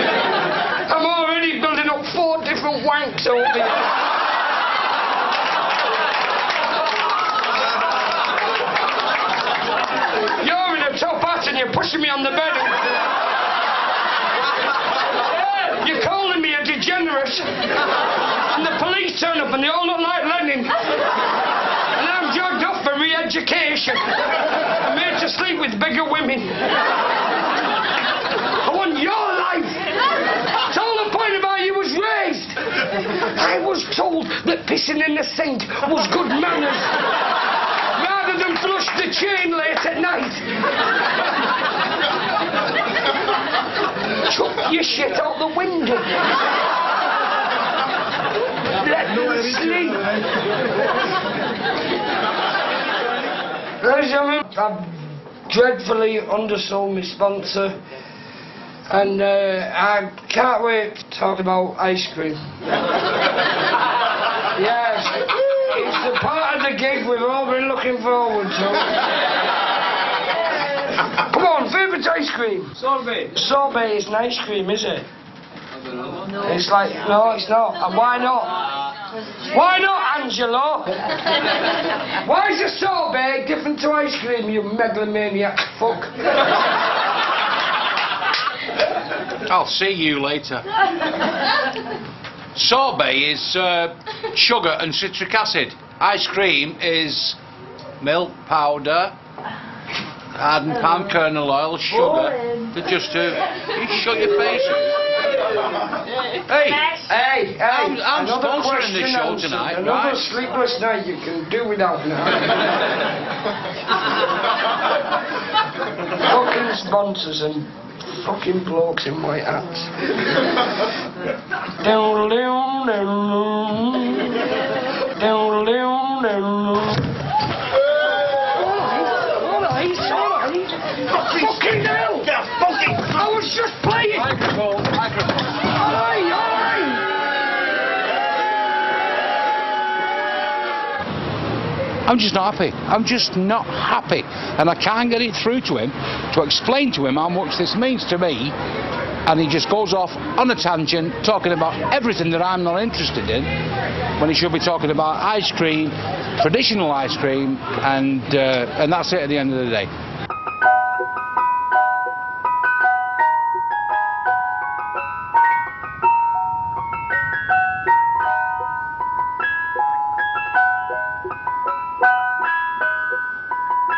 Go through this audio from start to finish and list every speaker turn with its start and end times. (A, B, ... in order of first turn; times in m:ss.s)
0:00.8-0:03.8 A
0:10.4-0:12.8 A
0:15.2-0:17.6 A
0:18.5-0:20.7 A
0:21.9-0:24.2 A
0:24.8-0:26.6 A
0:28.6-0:29.8 A
0:30.7-0:32.6 A
0:33.3-0:36.9 A
0:37.9-0:40.5 A
0:44.2-0:46.2 A
0:48.7-0:50.1 A
0:53.8-0:54.9 A
0:55.5-0:57.8 A
0:58.9-1:02.4 A
1:04.5-1:09.0 A
1:11.0-1:15.0 A
1:16.4-1:18.6 A
1:19.5-1:21.0 A
1:22.2-1:26.2 A
1:29.4-1:30.6 B
1:32.5-1:37.4 B
1:38.0-1:39.1 B
1:40.3-1:45.0 B
1:46.5-1:47.0 B
1:47.1-1:52.5 A
1:47.6-1:50.3 B
1:56.2-1:59.9 A
2:01.8-2:04.4 A
2:05.2-2:07.0 A
2:08.5-2:12.3 A
2:12.3-2:13.1 B
2:13.0-2:14.4 A
2:14.2-2:15.5 B
2:15.7-2:17.1 A
2:22.0-2:28.5 B
2:29.2-2:33.5 B
2:34.2-2:39.9 B